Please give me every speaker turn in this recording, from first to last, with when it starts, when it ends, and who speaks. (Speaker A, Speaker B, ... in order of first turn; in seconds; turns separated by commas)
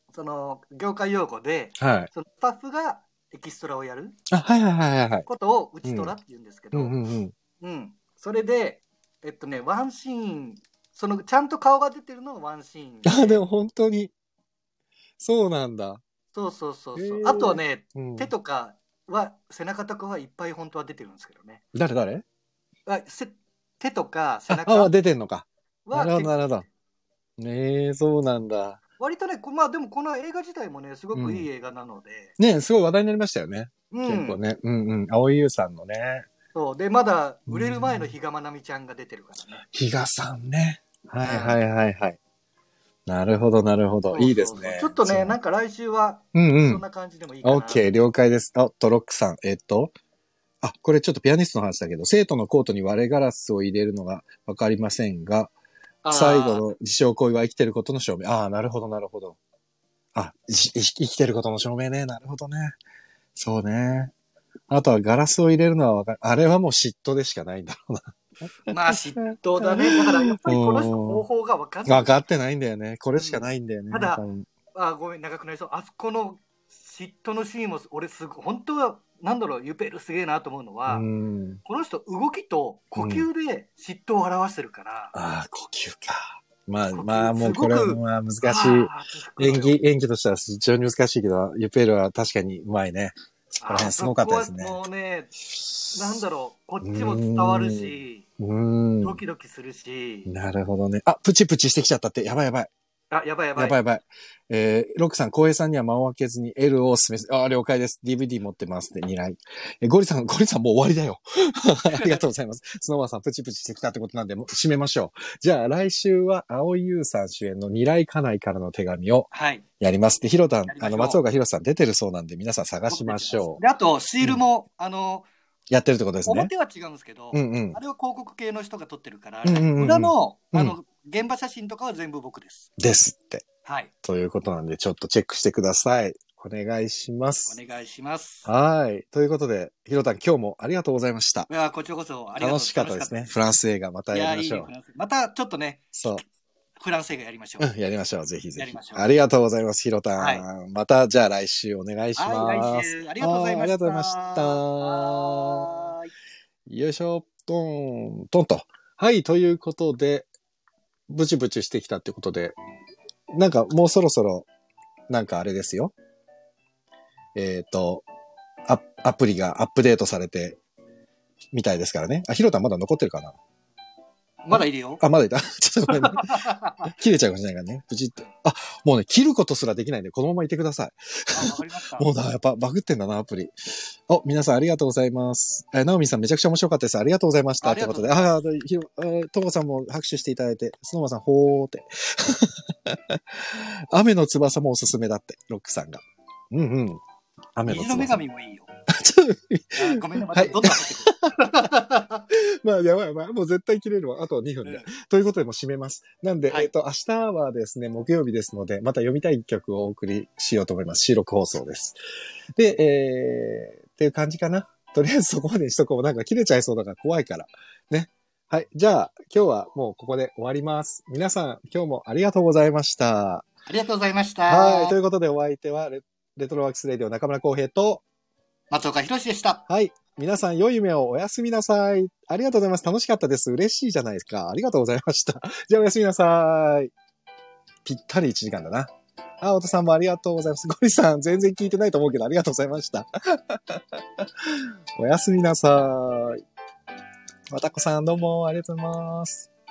Speaker A: 0.1-4.2, Speaker B: 1.8-2.1, Speaker B: 4.3-5.3, Speaker A: 5.3-7.0, Speaker B: 5.8-6.1, Speaker B: 6.7-7.3, Speaker A: 7.6-13.4, Speaker B: 13.1-14.1, Speaker B: 15.2-16.0, Speaker A: 16.3-21.6, Speaker B: 16.9-18.3, Speaker B: 21.7-22.2, Speaker A: 22.9-24.9, Speaker B: 24.5-26.7, Speaker A: 25.9-26.4, Speaker B: 27.4-28.8, Speaker A: 29.0-32.4, Speaker B: 31.1-31.5, Speaker B: 32.4-36.3, Speaker A: 33.9-34.4, Speaker A: 36.5-39.6, Speaker B: 37.5-38.1, Speaker B: 39.7-42.2, Speaker A: 41.2-41.6, Speaker B: 43.0-45.3, Speaker A: 44.1-47.9, Speaker B: 46.3-46.8, Speaker B: 47.4-49.9, Speaker B: 50.6-55.5, Speaker A: 56.0-56.7, Speaker B: 56.1-59.4, Speaker B: 60.1-62.8, Speaker B: 63.3-64.1, Speaker B: 64.7-68.2, Speaker B: 68.7-71.2, Speaker A: 68.7-72.1, Speaker B: 71.9-74.5, Speaker A: 73.2-74.2, Speaker A: 74.7-81.0, Speaker B: 80.9-81.6, Speaker A: 81.6-85.1, Speaker B: 83.0-83.3, Speaker B: 85.1-94.8, Speaker A: 86.9-89.8, Speaker A: 93.6-95.3, Speaker A: 95.9-98.2, Speaker B: 96.8-99.2, Speaker A: 99.0-100.3, Speaker B: 100.3-102.7, Speaker A: 103.1-103.8, Speaker B: 103.5-119.3, Speaker A: 111.9-112.2, Speaker A: 119.3-119.6, Speaker B: 119.8-123.6, Speaker A: 120.7-121.2, Speaker A: 122.9-125.3, Speaker B: 125.7-126.5, Speaker A: 126.3-132.7, Speaker B: 127.3-127.8, Speaker B: 129.4-130.8, Speaker B: 132.8-133.4, Speaker A: 133.6-133.9, Speaker B: 134.0-137.6, Speaker A: 137.5-138.5, Speaker B: 138.4-141.5, Speaker A: 141.5-143.3, Speaker B: 142.4-144.7, Speaker A: 144.1-145.8, Speaker B: 145.9-146.2, Speaker A: 146.8-147.7, Speaker B: 147.6-155.7, Speaker A: 148.6-149.1, Speaker A: 150.2-150.4, Speaker A: 152.2-156.1, Speaker B: 156.7-160.3, Speaker B: 161.1-162.6, Speaker B: 163.3-164.5, Speaker B: 165.1-165.9, Speaker B: 167.3-168.1, Speaker B: 168.7-170.6, Speaker B: 171.5-173.4, Speaker A: 174.4-175.0, Speaker B: 174.5-197.0, Speaker A: 175.9-176.9, Speaker A: 181.3-182.1, Speaker A: 187.6-188.3, Speaker B: 197.6-198.2, Speaker A: 197.6-198.7, Speaker B: 198.9-201.3, Speaker A: 199.8-202.2, Speaker B: 202.3-212.0, Speaker B: 212.6-223.4, Speaker A: 223.7-224.9, Speaker B: 224.5-228.0, Speaker A: 228.7-229.6, Speaker B: 229.7-236.9, Speaker B: 237.8-246.4, Speaker B: 247.5-249.5